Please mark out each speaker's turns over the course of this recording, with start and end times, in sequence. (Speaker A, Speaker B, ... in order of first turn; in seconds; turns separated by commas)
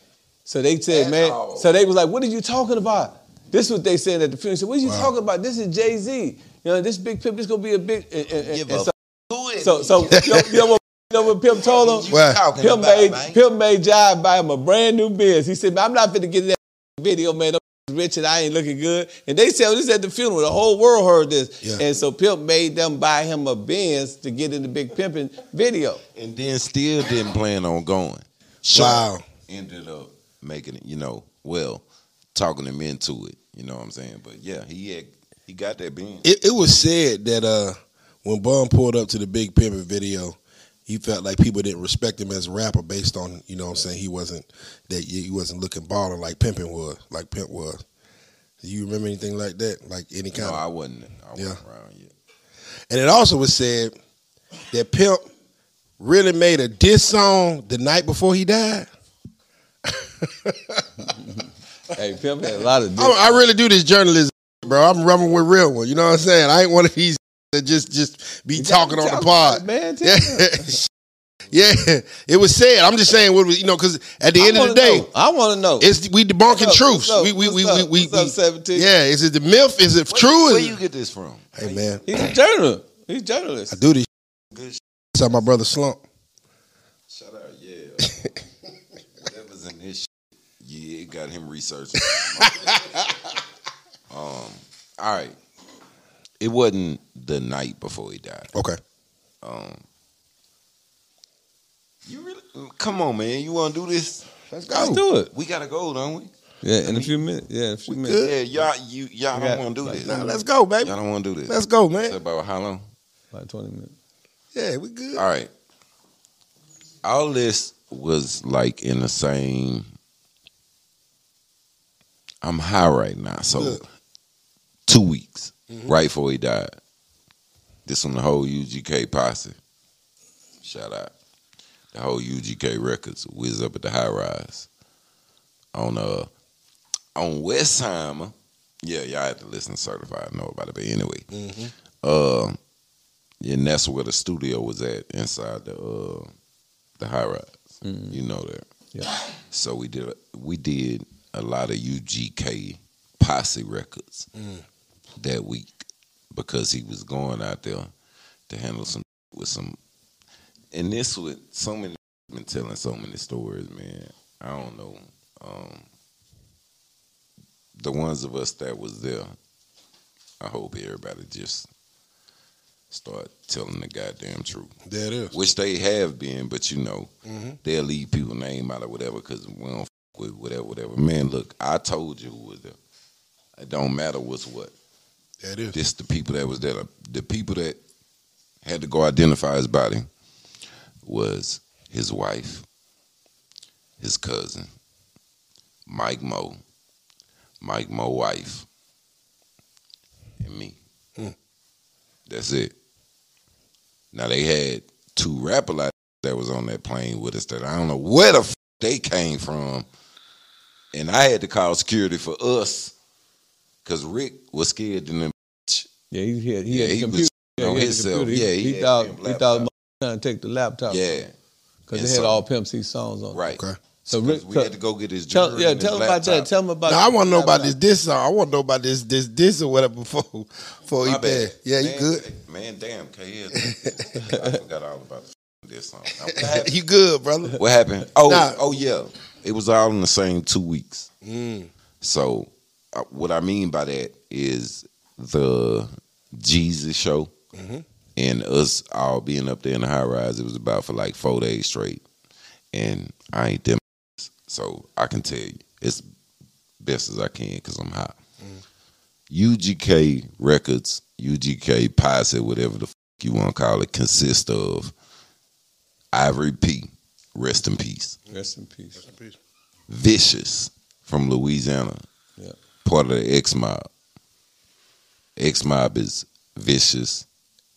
Speaker A: 0.4-8.9, Speaker B: 0.9-1.7, Speaker C: 4.8-5.1, Speaker B: 8.4-10.2, Speaker A: 9.6-26.0, Speaker C: 10.1-10.4, Speaker B: 11.6-13.4, Speaker C: 12.1-12.4, Speaker B: 26.1-36.3, Speaker C: 28.7-29.2, Speaker C: 36.2-47.8, Speaker C: 48.6-50.6, Speaker B: 50.3-52.1, Speaker C: 52.9-53.9, Speaker C: 54.7-55.2, Speaker C: 56.0-58.9, Speaker C: 60.2-61.1, Speaker A: 61.9-63.4, Speaker C: 63.0-70.8, Speaker A: 68.5-70.8, Speaker C: 71.5-75.1, Speaker A: 74.4-75.9, Speaker C: 75.8-80.8, Speaker A: 76.5-78.9, Speaker B: 80.1-81.9, Speaker C: 81.5-82.2, Speaker A: 82.0-83.8, Speaker C: 83.7-84.1, Speaker B: 84.5-84.8, Speaker C: 85.1-86.0, Speaker B: 87.1-88.4, Speaker B: 89.1-90.1, Speaker B: 90.6-93.0, Speaker B: 94.1-95.4, Speaker B: 96.4-98.5, Speaker B: 99.4-99.8, Speaker B: 102.0-104.2, Speaker C: 104.5-105.0, Speaker A: 104.7-105.3, Speaker B: 105.3-106.3, Speaker A: 106.6-108.3, Speaker B: 106.8-107.1, Speaker C: 107.9-108.3, Speaker B: 108.1-112.8, Speaker A: 109.3-110.4, Speaker C: 110.0-112.2, Speaker A: 113.3-113.9, Speaker C: 114.5-115.2, Speaker B: 115.1-115.5, Speaker B: 117.0-119.8, Speaker B: 122.4-123.8, Speaker C: 123.5-123.8, Speaker B: 124.9-126.8, Speaker B: 127.8-129.6, Speaker B: 130.6-131.1, Speaker B: 131.9-134.7, Speaker B: 135.7-136.3, Speaker B: 137.2-141.3, Speaker C: 141.3-141.7, Speaker B: 142.0-142.6, Speaker B: 143.4-146.3, Speaker B: 147.0-148.6, Speaker A: 147.8-148.2, Speaker B: 149.5-154.3, Speaker C: 154.3-154.6, Speaker B: 155.2-155.7, Speaker B: 156.3-157.9, Speaker B: 158.5-159.8, Speaker B: 160.7-165.8, Speaker B: 167.8-169.3, Speaker B: 170.4-171.7, Speaker B: 172.9-174.7, Speaker C: 174.8-175.3, Speaker B: 175.3-177.1, Speaker C: 177.3-177.6, Speaker B: 177.6-182.8, Speaker B: 183.6-184.7, Speaker C: 185.4-185.8, Speaker B: 185.7-187.8, Speaker B: 188.6-190.1, Speaker B: 191.0-192.6, Speaker B: 194.0-194.7, Speaker B: 195.9-196.6, Speaker B: 197.6-198.7, Speaker B: 200.4-200.8, Speaker B: 202.3-202.7, Speaker B: 204.1-209.8, Speaker B: 210.9-212.9, Speaker B: 213.8-215.9, Speaker A: 216.1-221.2, Speaker B: 216.7-219.7, Speaker B: 220.9-221.3, Speaker A: 221.9-223.5, Speaker B: 221.9-222.4, Speaker B: 223.3-226.5, Speaker A: 224.1-224.7, Speaker A: 225.3-227.7, Speaker C: 226.8-232.2, Speaker B: 231.0-236.7, Speaker C: 233.6-233.9, Speaker C: 236.3-237.6, Speaker B: 237.6-241.1, Speaker C: 238.2-238.6, Speaker C: 241.2-241.7, Speaker B: 242.0-247.3, Speaker C: 247.5-247.8, Speaker B: 248.2-252.0, Speaker B: 252.7-256.0, Speaker B: 256.8-258.2, Speaker B: 259.3-264.9, Speaker B: 266.1-268.2, Speaker A: 268.3-269.1, Speaker C: 269.0-269.4, Speaker B: 269.9-272.0, Speaker B: 272.8-273.9, Speaker B: 275.4-277.2